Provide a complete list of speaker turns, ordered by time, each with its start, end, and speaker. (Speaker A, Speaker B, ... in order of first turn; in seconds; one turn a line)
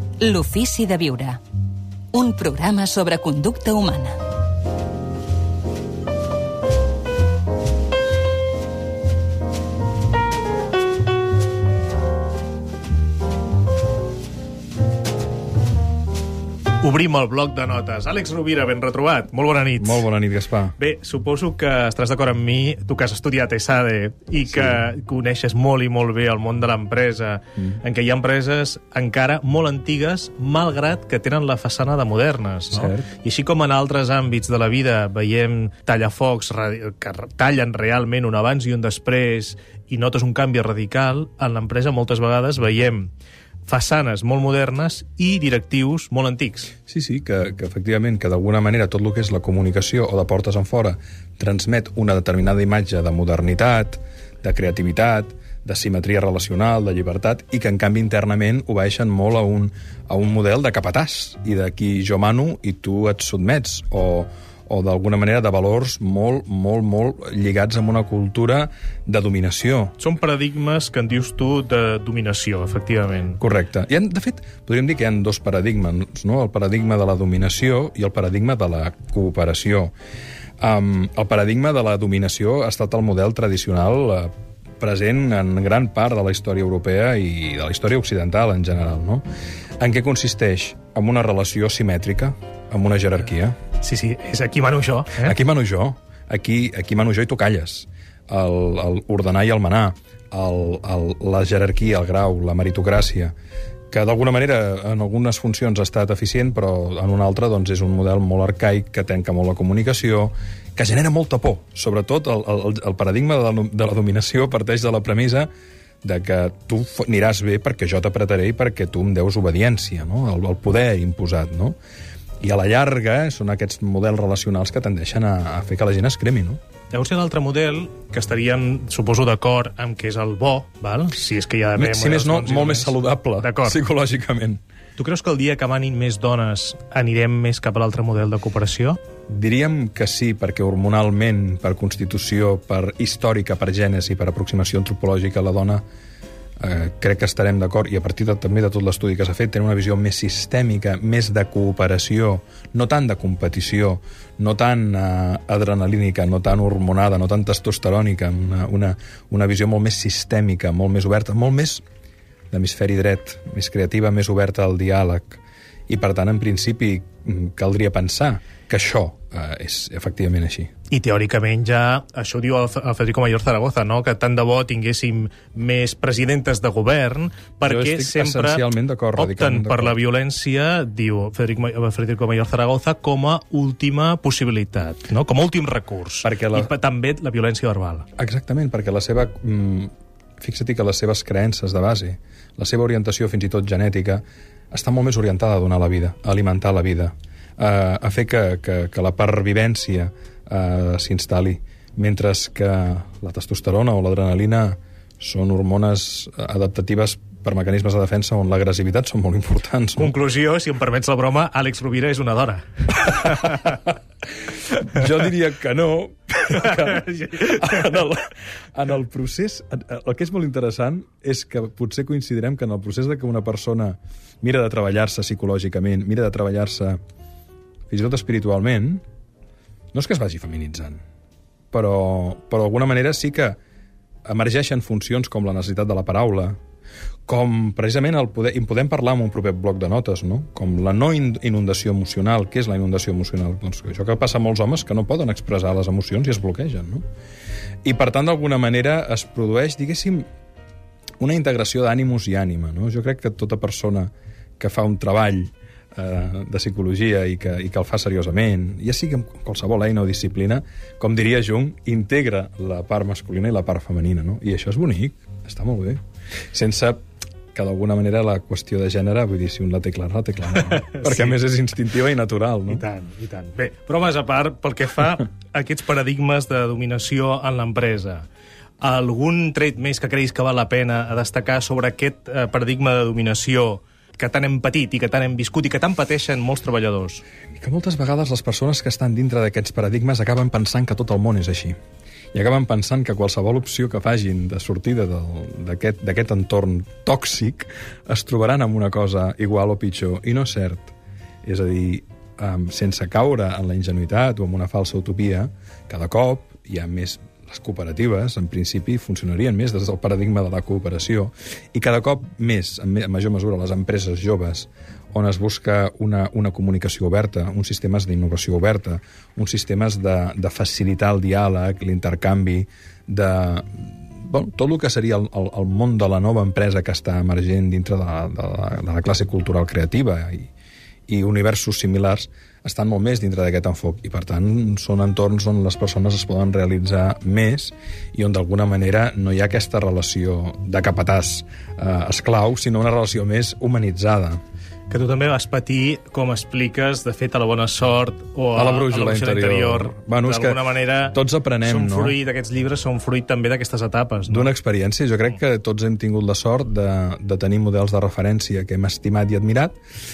Speaker A: 0.2-1.4
Speaker A: 2.1-4.2
Speaker B: 16.8-20.1
Speaker C: 19.8-20.8
Speaker B: 20.8-43.1
Speaker C: 32.7-33.1
Speaker B: 43.6-46.7
Speaker C: 46.9-69.9
Speaker B: 70.0-73.4
Speaker C: 73.4-79.9
Speaker C: 80.6-89.2
Speaker C: 89.8-93.6
Speaker B: 93.8-95.3
Speaker C: 95.2-103.3
Speaker C: 103.9-115.5
Speaker C: 116.0-121.8
Speaker C: 122.4-126.6
Speaker B: 126.9-133.8
Speaker C: 131.8-134.6
Speaker B: 135.0-139.0
Speaker C: 139.3-145.8
Speaker C: 146.6-161.8
Speaker C: 162.5-170.7
Speaker B: 170.9-188.1
Speaker C: 177.7-180.0
Speaker C: 186.2-186.7
Speaker C: 188.2-210.1
Speaker B: 210.0-213.6
Speaker C: 213.1-213.8
Speaker C: 214.7-227.0
Speaker C: 227.9-229.0
Speaker C: 229.9-231.0
Speaker C: 231.7-233.6
Speaker C: 234.2-236.6
Speaker C: 237.3-247.1
Speaker C: 247.8-250.3
Speaker C: 251.2-266.0
Speaker C: 266.5-267.0
Speaker C: 267.5-272.9
Speaker B: 270.7-271.4
Speaker B: 272.7-278.3
Speaker B: 278.8-287.2
Speaker C: 287.6-291.8
Speaker C: 292.3-330.5
Speaker C: 331.1-344.4
Speaker B: 344.9-354.5
Speaker C: 348.6-352.1
Speaker C: 354.3-359.8